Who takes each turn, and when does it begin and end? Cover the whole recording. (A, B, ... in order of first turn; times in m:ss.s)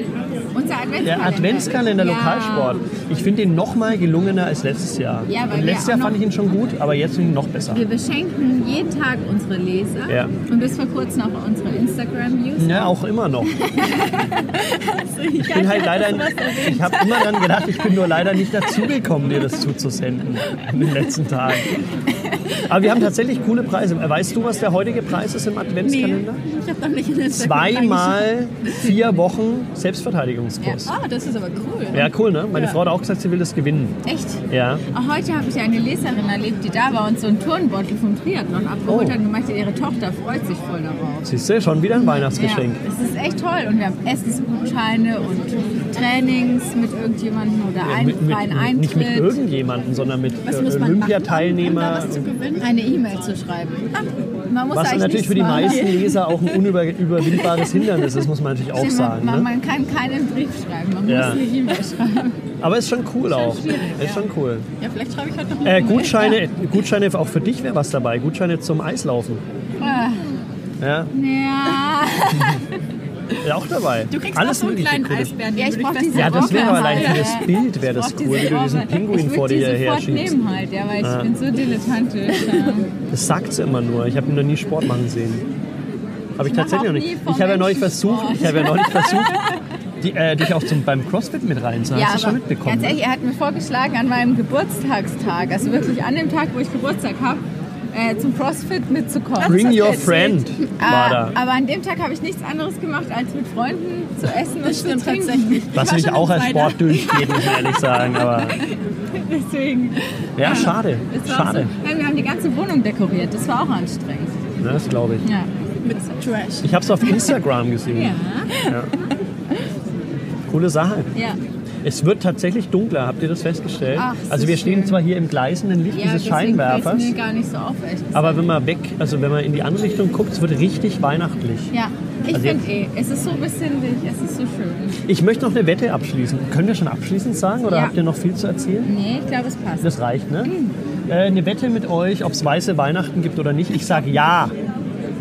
0:00.5-0:02.8 A
0:01.0-0:07.8 B
0:05.3-0:06.2 A
0:07.7-0:14.4 A
0:10.1-0:10.3 B
0:12.6-0:13.5 B
0:14.6-0:17.9 C
0:15.4-0:21.8 B
0:22.6-0:26.4 B
0:25.8-0:28.7 C
0:27.3-0:30.9 B
0:30.8-0:32.8 C
0:31.9-0:33.9 B
0:34.0-0:41.3 A
0:34.5-0:34.8 B
0:38.9-0:39.2 B
0:41.2-0:42.8 B
0:41.9-0:49.4 A
0:47.8-0:52.3 B
0:50.4-0:52.7 C
0:52.6-0:55.9 A
0:54.7-0:59.5 B
0:55.5-0:56.3 C
0:58.7-1:02.4 A
1:01.1-1:01.5 B
1:02.6-1:04.7 B
1:03.3-1:04.2 A
1:04.8-1:06.4 C
1:05.6-1:09.4 B
1:09.8-1:10.3 A
1:10.8-1:11.1 B
1:11.1-1:12.7 A
1:12.3-1:12.6 B
1:13.4-1:15.3 B
1:14.1-1:17.4 C
1:15.6-1:22.9 A
1:16.1-1:20.4 B
1:21.0-1:21.3 B
1:23.1-1:25.4 B
1:26.4-1:29.4 B
1:26.4-1:29.5 A
1:30.0-1:33.0 B
1:31.9-1:45.7 A
1:39.4-1:40.4 C
1:39.4-1:41.4 B
1:44.6-1:47.6 C
1:45.7-1:48.6 B
1:48.3-1:54.3 A
1:50.4-1:51.7 B
1:54.6-1:55.2 B
1:55.2-1:55.5 A
1:55.8-1:57.3 C
1:56.6-1:58.9 B
1:57.9-1:58.5 A
2:00.5-2:01.1 B
2:01.8-2:07.1 B
2:03.9-2:05.0 A
2:05.9-2:08.5 A
2:08.1-2:11.7 B
2:11.7-2:15.0 A
2:12.3-2:12.6 B
2:15.1-2:18.9 B
2:17.7-2:17.9 A
2:18.8-2:20.7 A
2:19.8-2:20.5 B
2:21.1-2:24.5 B